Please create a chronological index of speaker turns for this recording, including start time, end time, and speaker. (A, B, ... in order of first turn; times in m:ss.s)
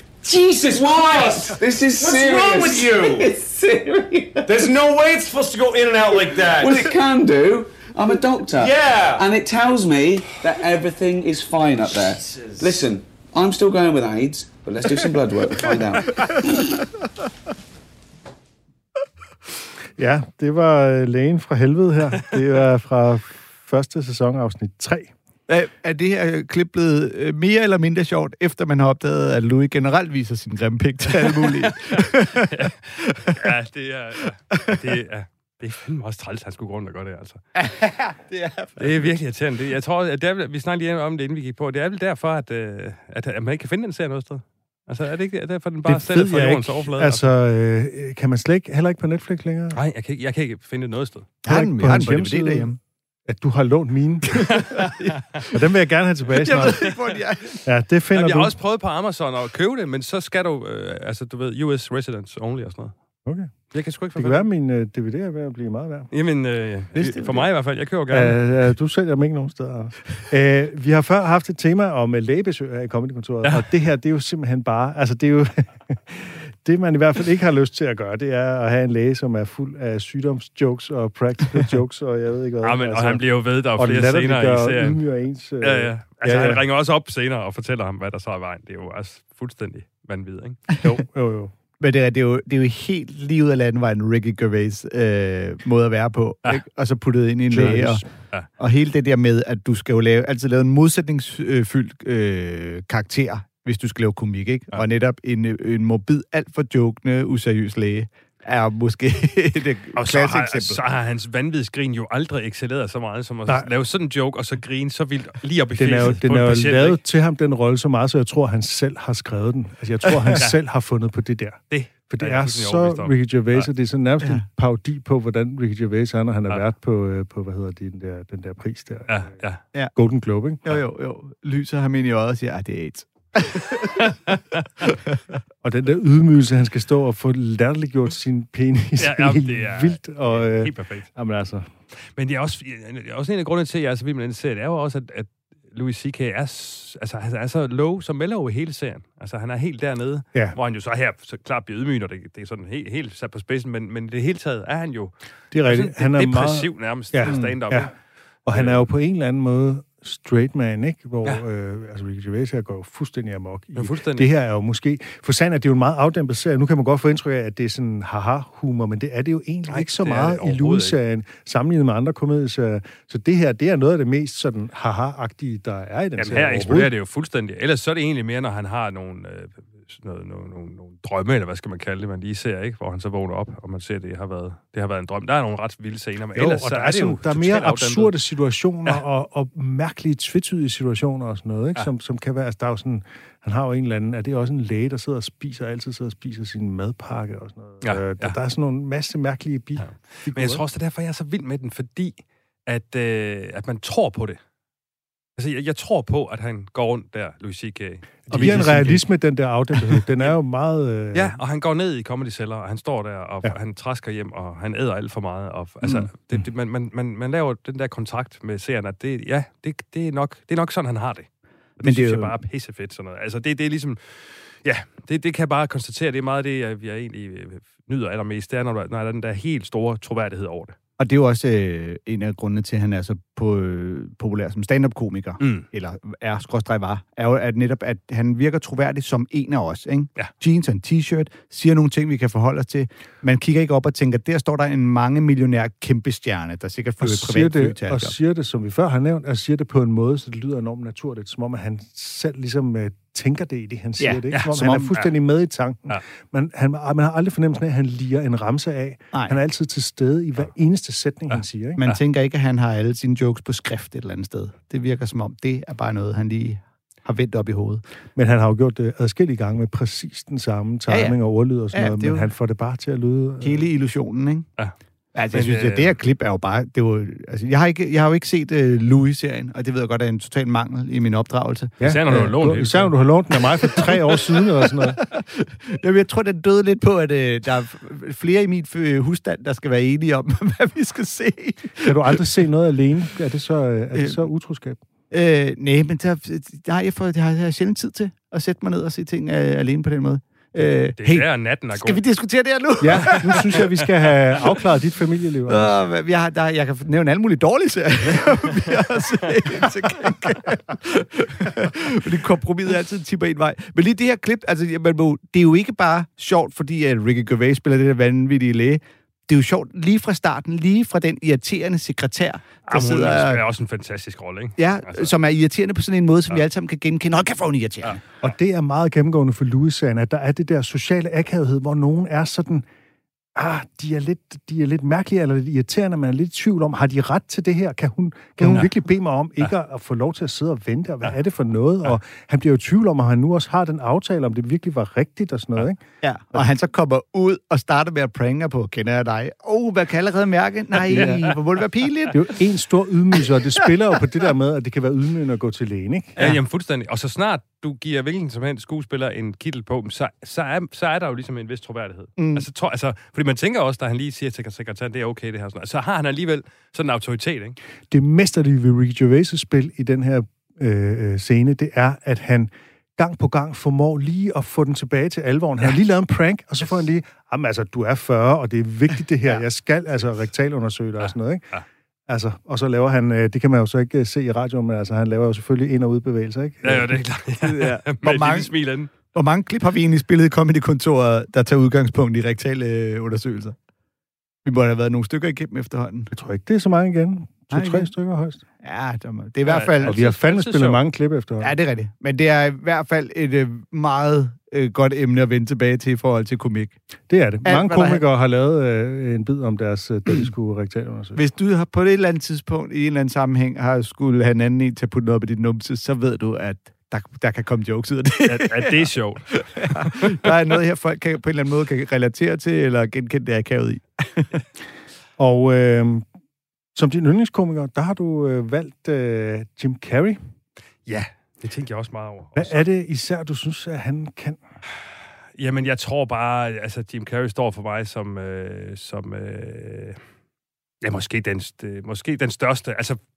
0:00.2-0:03.3 A
0:00.6-0:04.7 B
0:04.4-0:07.0 A
0:06.2-0:16.8 B
0:08.5-0:09.2 A
0:12.0-0:12.8 A
0:20.0-0:25.1 C
0:25.5-0:32.5 D
0:31.7-0:37.4 E
0:37.6-0:38.8 D
0:38.8-0:47.3 E
0:45.9-0:49.8 C
0:49.7-0:51.3 E
0:51.4-0:52.8 D
0:51.4-0:54.7 C
0:54.5-0:54.8 E
0:55.5-0:56.9 C
0:56.3-0:57.6 D
0:57.6-0:58.5 C
0:58.1-1:02.9 E
1:03.2-1:06.1 C
1:03.7-1:04.5 E
1:06.1-1:08.4 E
1:07.0-1:07.5 D
1:08.1-1:26.6 C
1:22.6-1:25.0 E
1:25.6-1:30.7 E
1:30.8-1:31.5 C
1:31.8-1:38.0 D
1:37.5-1:38.0 C
1:38.6-1:50.8 D
1:50.0-1:57.0 E
1:55.8-2:09.3 C
2:01.7-2:03.7 E
2:09.1-2:09.6 E
2:10.0-2:10.6 C
2:10.6-2:13.9 D
2:14.0-2:14.6 E
2:15.6-2:21.7 C
2:19.0-2:21.1 E
2:22.2-2:37.9 E
2:35.5-2:37.9 C
2:37.2-2:37.5 D
2:38.5-2:56.9 C
2:38.5-2:38.9 E
2:43.8-2:44.3 E
2:49.7-2:51.0 E
2:56.2-3:08.1 E
3:06.4-3:20.6 C
3:17.8-3:18.4 E
3:19.8-3:24.4 E
3:25.4-3:28.9 E
3:28.3-3:31.4 C
3:28.3-3:29.0 D
3:31.1-3:41.3 E
3:41.8-3:50.8 E
3:41.8-3:42.3 D
3:51.0-4:08.1 D
3:55.4-3:55.6 E
4:07.0-4:21.9 C
4:14.0-4:14.9 D
4:14.3-4:15.1 E
4:21.3-4:22.0 E
4:21.8-4:27.8 D
4:28.2-4:33.6 C
4:30.9-4:31.2 D
4:31.7-4:32.3 D
4:33.4-4:34.5 D
4:35.1-4:41.8 D
4:35.3-4:36.0 E
4:41.8-4:45.0 C
4:41.8-4:43.0 E
4:45.0-4:52.2 D
4:51.8-4:54.8 C
4:53.9-4:54.2 D
4:55.1-5:03.7 D
5:00.6-5:02.0 E
5:02.8-5:05.8 C
5:05.5-5:23.4 D
5:22.6-5:25.1 E
5:24.6-5:28.2 D
5:28.2-5:32.6 C
5:33.4-5:46.5 C
5:38.4-5:38.7 E
5:46.0-5:52.3 D
5:50.9-5:51.3 C
5:52.1-5:56.4 C
5:56.2-6:07.6 E
6:02.2-6:02.4 D
6:07.9-6:21.4 C
6:21.0-6:21.6 E
6:22.1-6:26.9 C
6:26.6-6:28.9 E
6:27.4-6:33.6 D
6:34.4-6:36.1 D
6:36.1-6:38.4 C
6:37.5-6:37.9 D
6:38.6-6:40.0 D
6:39.4-6:40.8 E
6:39.8-6:41.5 C
6:41.4-6:46.8 D
6:47.1-6:51.2 C
6:47.4-6:48.0 D
6:51.1-6:58.9 D
6:58.3-7:00.3 E
6:59.6-7:04.4 D
7:05.2-7:06.0 C
7:06.8-7:10.2 C
7:10.9-7:12.6 E
7:12.4-7:14.4 C
7:15.4-7:20.0 E
7:20.8-7:23.0 E